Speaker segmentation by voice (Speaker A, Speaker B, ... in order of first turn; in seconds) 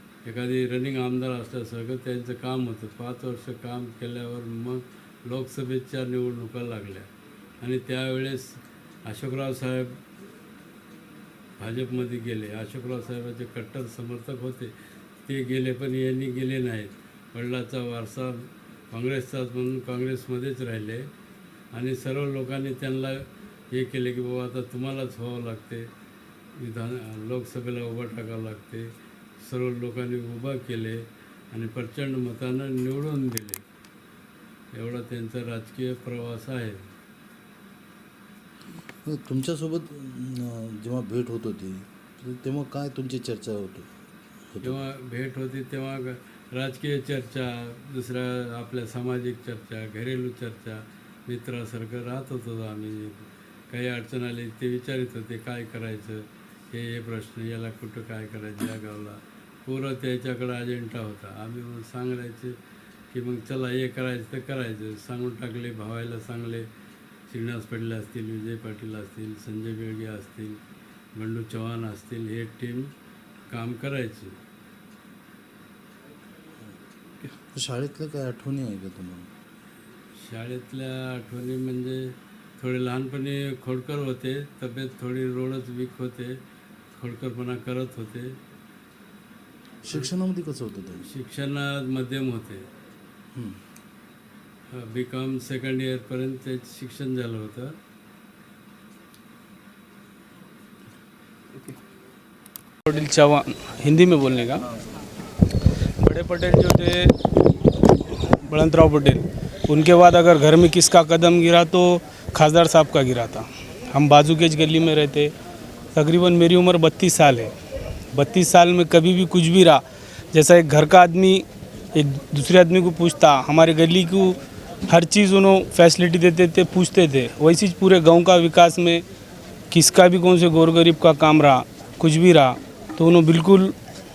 Speaker A: 0.2-7.1, 7.6-10.0, 11.6-14.7, 15.2-21.0, 21.7-25.9, 26.6-28.9, 29.4-33.6, 34.7-36.8, 44.6-62.5, 63.1-66.7, 67.3-70.6, 71.2-72.9, 73.5-74.3, 80.2-86.3, 86.9-88.3, 91.1-92.6, 94.7-97.7
Speaker B: 39.0-43.9, 44.5-44.8, 77.3-79.3, 89.8-91.0, 93.3-93.6
Speaker C: 102.9-104.7, 106.0-107.1, 108.1-115.3, 115.9-117.5, 118.1-124.4, 124.9-129.0, 129.7-133.7